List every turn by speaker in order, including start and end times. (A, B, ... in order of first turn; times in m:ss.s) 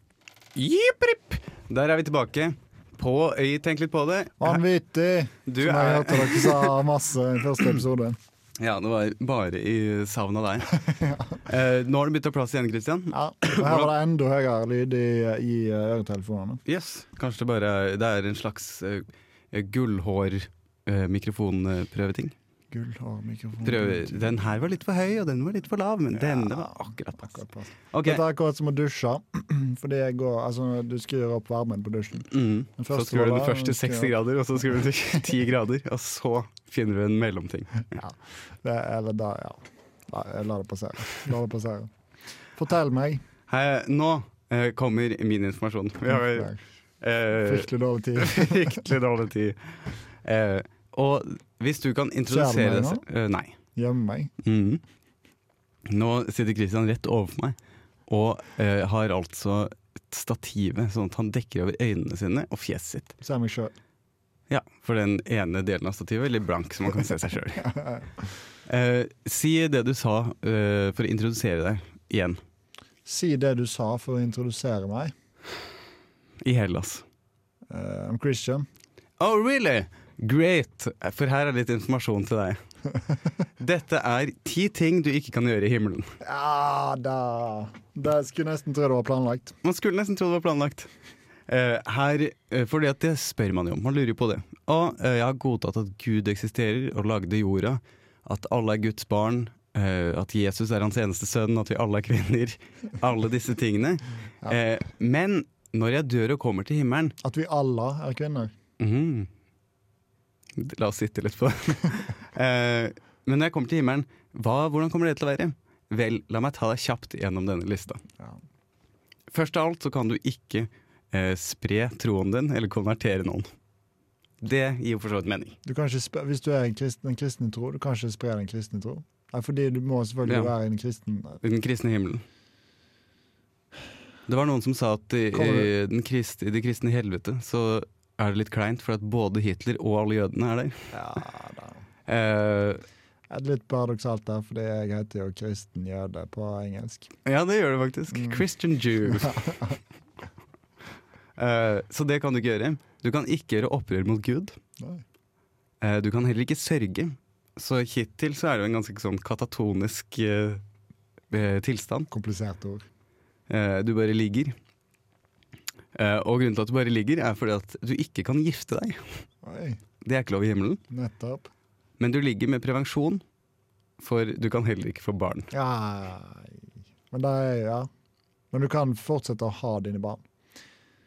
0:00.6-0:04.6 A
0:04.4-0:08.2 B
0:05.5-0:06.7 A
0:08.6-0:10.8 A
0:10.9-0:11.4 B
0:11.4-0:13.9 A
0:13.1-0:16.6 B
0:16.7-0:22.4 A
0:22.7-0:24.4 B
0:23.6-0:28.2 A
0:26.1-0:34.2 B
0:32.3-0:37.8 A
0:37.9-0:41.9 B
0:42.6-0:43.2 B
0:43.5-0:53.5 A
0:46.0-0:46.6 B
0:47.4-0:48.9 B
0:52.3-0:53.0 B
0:53.8-0:54.3 B
0:54.4-0:54.8 A
0:55.9-0:57.6 A
0:58.1-1:03.2 A
1:03.2-1:03.7 B
1:04.5-1:07.7 A
1:07.6-1:08.1 B
1:08.7-1:12.4 A
1:13.1-1:15.1 B
1:16.4-1:17.0 A
1:17.7-1:18.7 B
1:19.2-1:22.6 A
1:23.6-1:26.2 A
1:26.2-1:29.6 B
1:29.6-1:30.9 A
1:31.5-1:47.2 A
1:47.2-1:48.5 B
1:48.8-1:49.3 A
1:50.6-1:58.0 A
1:59.3-2:03.5 A
2:04.4-2:05.6 A
2:05.6-2:11.4 B
2:10.3-2:10.5 A
2:11.4-2:12.2 A
2:14.3-2:20.9 A
2:15.3-2:15.7 B
2:20.9-2:21.8 B
2:22.1-2:22.8 A
2:23.3-2:27.1 B
2:27.2-2:29.5 A
2:28.1-2:28.4 B
2:29.0-2:29.8 B
2:31.4-2:34.6 A
2:35.8-2:40.6 A
2:41.3-2:42.1 A
2:42.1-2:42.8 B
2:43.5-2:44.6 A
2:46.0-2:49.1 A
2:49.4-2:49.8 B
2:50.0-2:50.8 A
2:50.9-2:51.5 B
2:52.0-2:53.2 A
2:54.0-2:55.5 A
2:55.5-2:57.9 B
2:58.5-3:00.2 B